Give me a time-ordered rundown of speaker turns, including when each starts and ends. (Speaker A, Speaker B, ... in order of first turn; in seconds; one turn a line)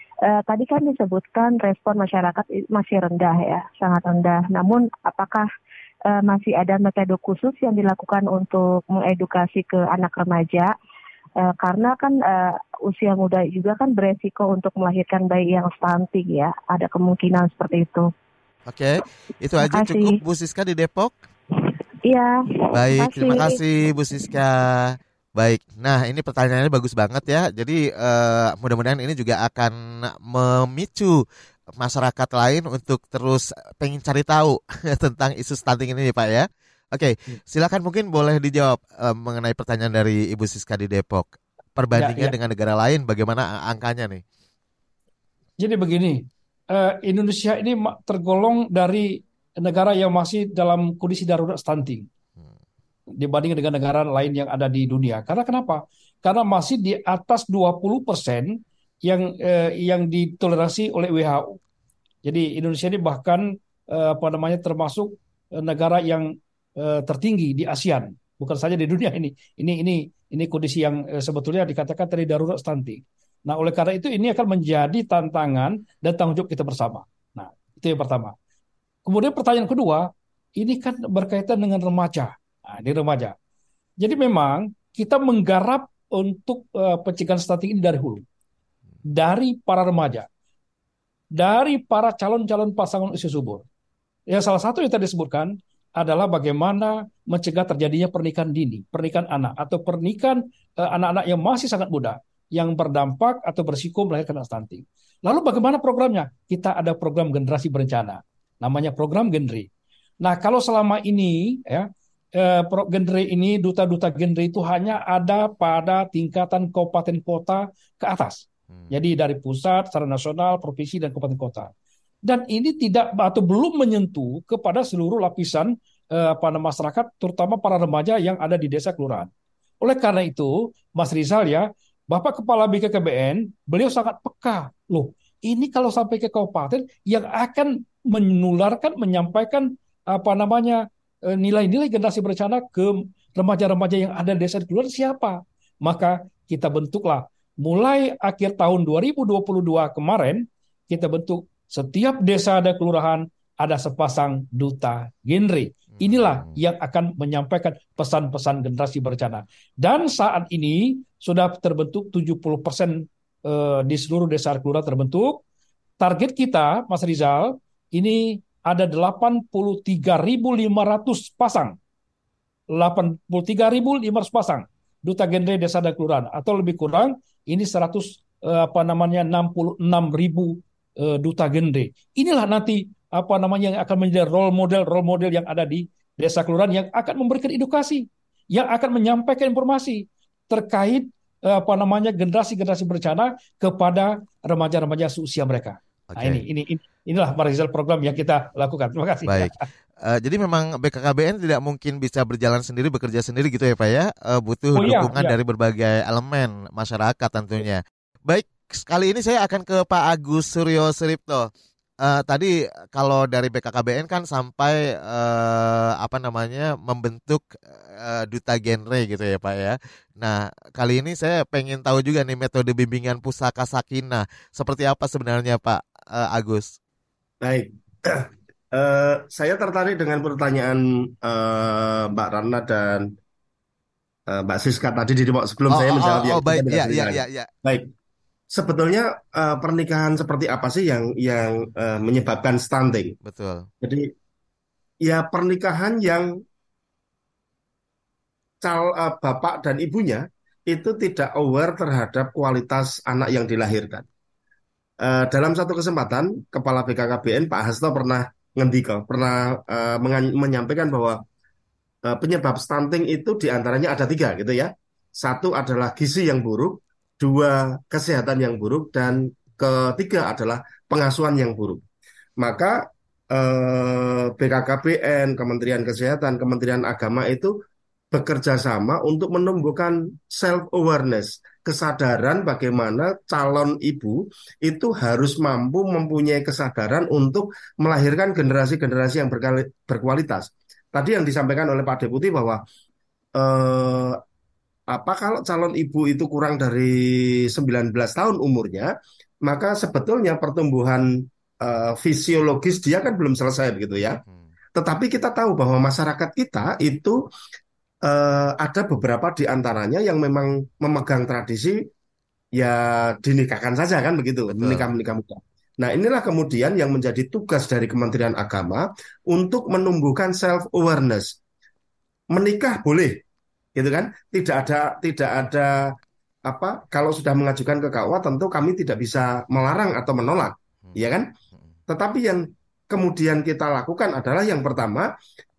Speaker A: 0.3-5.5
Speaker A: 6.1-10.7
Speaker A: 11.4-18.1
Speaker B: 18.7-21.1
Speaker A: 19.6-20.2
Speaker A: 22.1-23.6
Speaker B: 22.7-31.2
Speaker B: 31.8-44.2
Speaker C: 41.9-42.3
Speaker C: 45.6-52.1
Speaker C: 53.2-61.6
Speaker C: 62.2-78.3
Speaker C: 79.0-83.3
Speaker C: 84.0-88.2
Speaker C: 89.1-90.3
Speaker C: 91.3-93.6
Speaker C: 94.3-109.7
Speaker C: 110.2-121.7
Speaker C: 122.2-129.3
Speaker C: 129.8-165.4
Speaker B: 155.9-156.6
Speaker C: 166.0-171.8
Speaker C: 172.7-199.6
Speaker B: 196.1-196.4
Speaker B: 199.2-211.5
Speaker C: 204.8-205.3
Speaker B: 212.0-226.7
Speaker D: 227.4-233.1
Speaker D: 234.3-237.9
Speaker B: 235.7-237.5
Speaker D: 238.5-243.2
Speaker B: 243.2-243.7
Speaker D: 243.8-244.1
Speaker D: 245.0-246.4
Speaker D: 248.6-254.1
Speaker D: 255.0-261.2
Speaker D: 262.0-271.8
Speaker D: 272.4-277.5
Speaker D: 278.1-292.6
Speaker D: 293.4-294.2
Speaker D: 294.9-298.9
Speaker D: 299.4-304.2
Speaker D: 304.7-307.2
Speaker D: 308.0-311.8
Speaker D: 312.5-321.4
Speaker B: 314.5-314.9
Speaker D: 322.3-323.2
Speaker D: 323.8-325.9
Speaker D: 326.4-331.3
Speaker D: 331.9-335.1